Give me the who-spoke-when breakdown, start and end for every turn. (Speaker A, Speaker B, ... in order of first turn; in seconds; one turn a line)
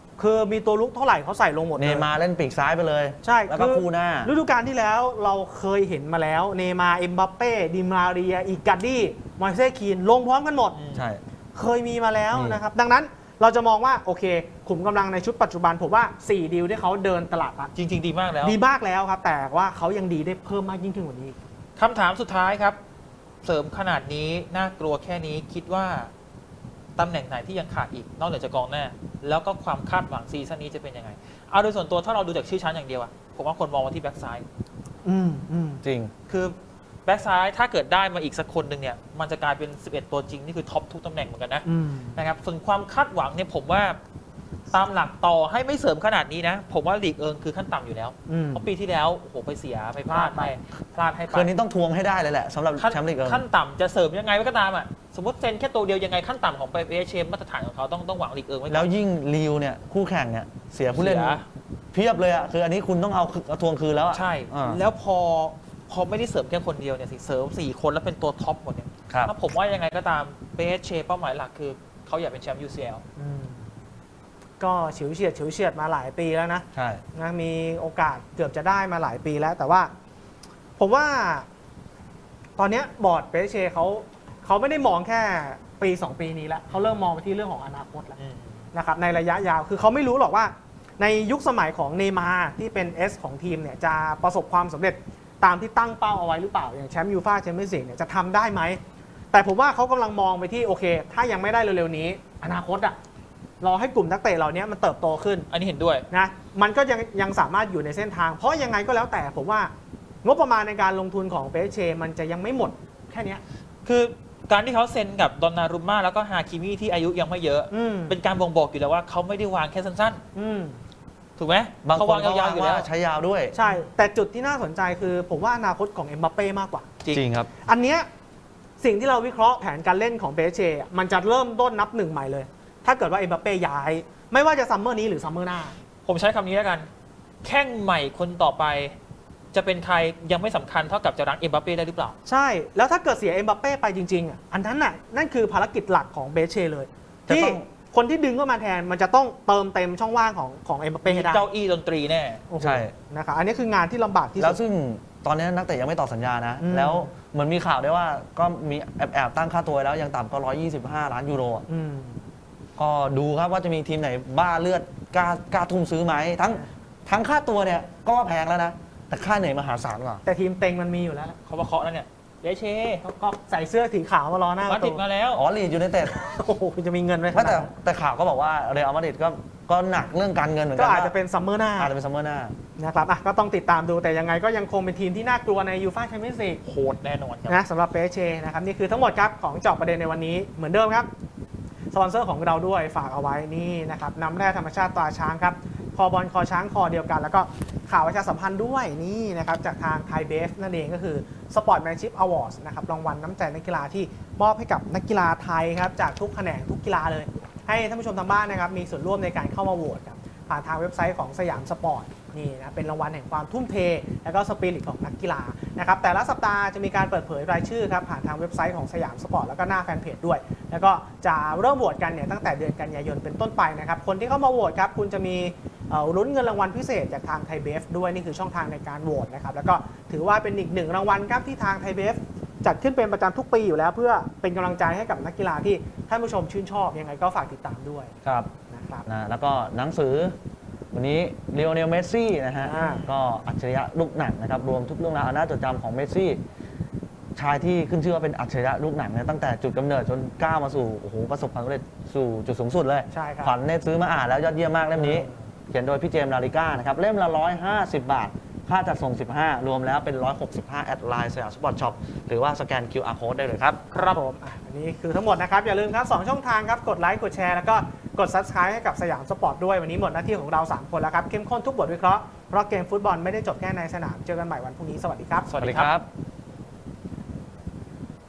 Speaker A: 0.2-2.1
Speaker B: 1.8-4.3
Speaker A: 3.2-10.8
Speaker C: 10.7-11.1
Speaker B: 10.9-11.2
Speaker A: 11.6-17.7
Speaker B: 12.3-12.6
Speaker C: 17.7-18.6
Speaker A: 18.4-21.4
Speaker C: 21.8-22.8
Speaker C: 23.4-26.1
Speaker C: 27.0-34.5
Speaker A: 35.0-35.8
Speaker B: 35.8-36.1
Speaker C: 36.3-44.0
Speaker A: 41.6-42.2
Speaker C: 44.7-51.5
Speaker A: 48.3-48.6
Speaker A: 50.1-50.5
Speaker B: 51.3-53.4
Speaker C: 52.8-58.9
Speaker B: 58.7-61.4
Speaker C: 60.9-61.4
Speaker B: 61.9-64.8
Speaker C: 64.1-73.0
Speaker B: 69.1-69.3
Speaker A: 73.2-73.7
Speaker A: 74.6-79.9
Speaker B: 76.7-77.0
Speaker A: 80.8-81.5
Speaker A: 82.6-88.2
Speaker C: 88.2-88.7
Speaker A: 88.7-98.8
Speaker A: 99.3-103.0
Speaker A: 103.6-105.5
Speaker C: 105.5-106.1
Speaker A: 106.1-109.7
Speaker A: 110.2-113.4
Speaker C: 113.8-120.2
Speaker A: 117.7-118.2
Speaker A: 120.3-120.8
Speaker C: 121.4-122.9
Speaker B: 121.8-123.5
Speaker A: 123.5-126.9
Speaker B: 127.1-127.5
Speaker A: 127.6-128.1
Speaker A: 128.8-135.8
Speaker C: 136.1-136.9
Speaker C: 137.4-138.9
Speaker C: 139.5-142.2
Speaker A: 142.2-151.4
Speaker B: 147.3-147.7
Speaker C: 151.1-152.4
Speaker A: 152.5-154.6
Speaker B: 152.6-152.9
Speaker B: 154.4-161.6
Speaker A: 156.6-157.1
Speaker A: 161.7-162.2
Speaker B: 162.8-170.2
Speaker A: 170.2-171.4
Speaker C: 171.5-173.1
Speaker A: 173.0-175.0
Speaker C: 174.6-175.4
Speaker B: 175.3-176.2
Speaker A: 176.0-177.7
Speaker B: 177.3-181.1
Speaker A: 180.8-181.9
Speaker B: 181.8-182.6
Speaker A: 182.8-186.6
Speaker C: 186.6-187.6
Speaker A: 187.5-191.1
Speaker A: 191.9-238.2
Speaker B: 238.2-238.5
Speaker A: 238.7-239.1
Speaker B: 239.1-240.4
Speaker B: 240.9-246.4
Speaker A: 242.6-243.1
Speaker C: 242.8-243.1
Speaker B: 247.4-263.8
Speaker A: 253.1-253.5
Speaker A: 254.9-255.4
Speaker C: 263.9-264.2
Speaker A: 263.9-275.5
Speaker C: 275.4-275.9
Speaker B: 275.6-276.1